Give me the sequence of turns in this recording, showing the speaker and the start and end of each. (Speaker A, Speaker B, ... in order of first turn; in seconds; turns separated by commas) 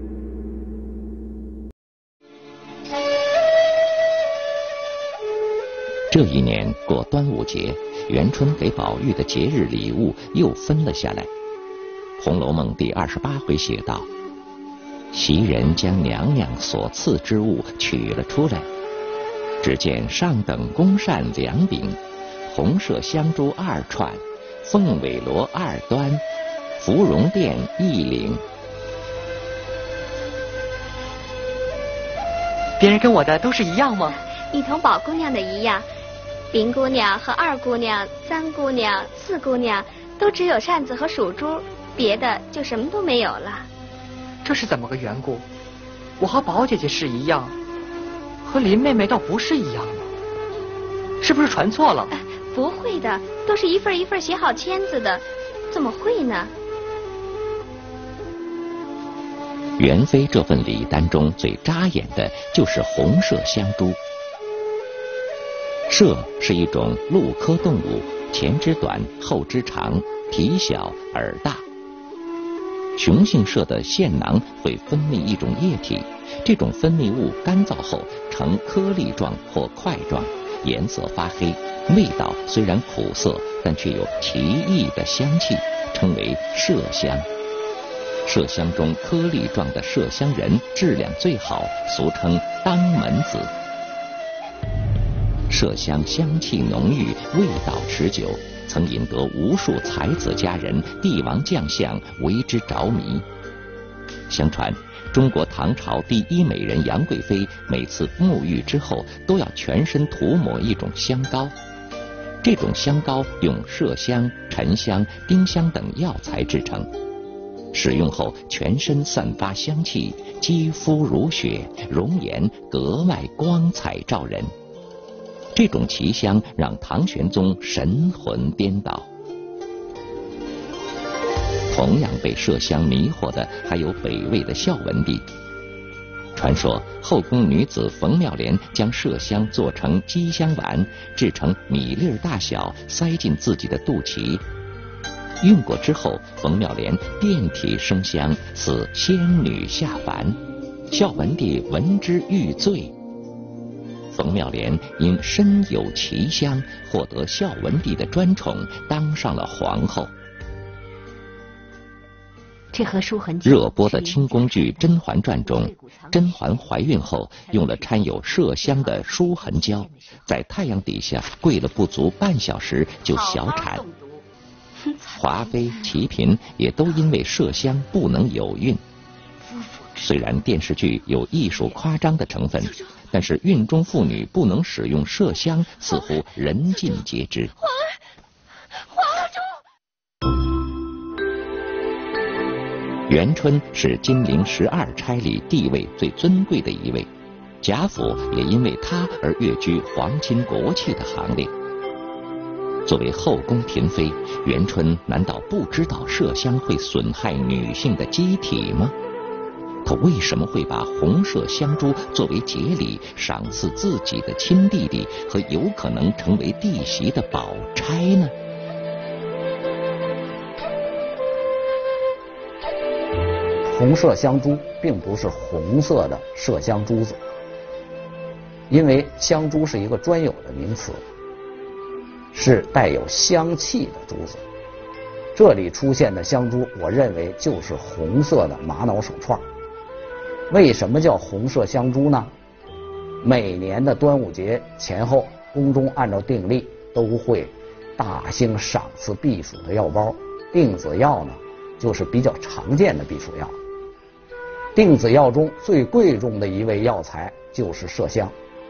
Speaker A: 6.1-11.3, Speaker A: 12.2-14.1, Speaker A: 15.1-18.7, Speaker A: 19.6-26.2, Speaker A: 26.8-28.4, Speaker B: 32.8-34.1, Speaker C: 34.5-35.9, Speaker C: 36.5-43.7, Speaker B: 44.4-45.5, Speaker B: 46.2-47.5, Speaker B: 48.4-50.1, Speaker B: 51.2-52.1, Speaker C: 52.1-56.5, Speaker A: 59.8-64.0, Speaker A: 65.9-71.6, Speaker A: 73.0-87.3, Speaker A: 88.2-93.5, Speaker A: 95.5-103.2, Speaker A: 104.3-111.5, Speaker A: 112.4-116.9, Speaker A: 117.7-124.5, Speaker A: 125.5-129.1, Speaker A: 131.7-135.2, Speaker A: 136.3-144.4, Speaker A: 145.4-152.9, Speaker A: 154.1-160.1, Speaker D: 162.7-170.3, Speaker A: 163.4-173.8, Speaker D: 173.1-174.2, Speaker A: 175.1-178.8, Speaker D: 175.2-175.9, Speaker A: 180.0-187.5, Speaker A: 193.1-197.1, Speaker A: 197.6-201.5, Speaker A: 202.8-208.9, Speaker A: 209.8-218.3, Speaker E: 223.7-227.2, Speaker E: 228.7-231.0, Speaker E: 232.3-234.4, Speaker E: 235.3-239.4, Speaker E: 240.5-242.3, Speaker E: 243.2-253.6, Speaker E: 254.7-258.3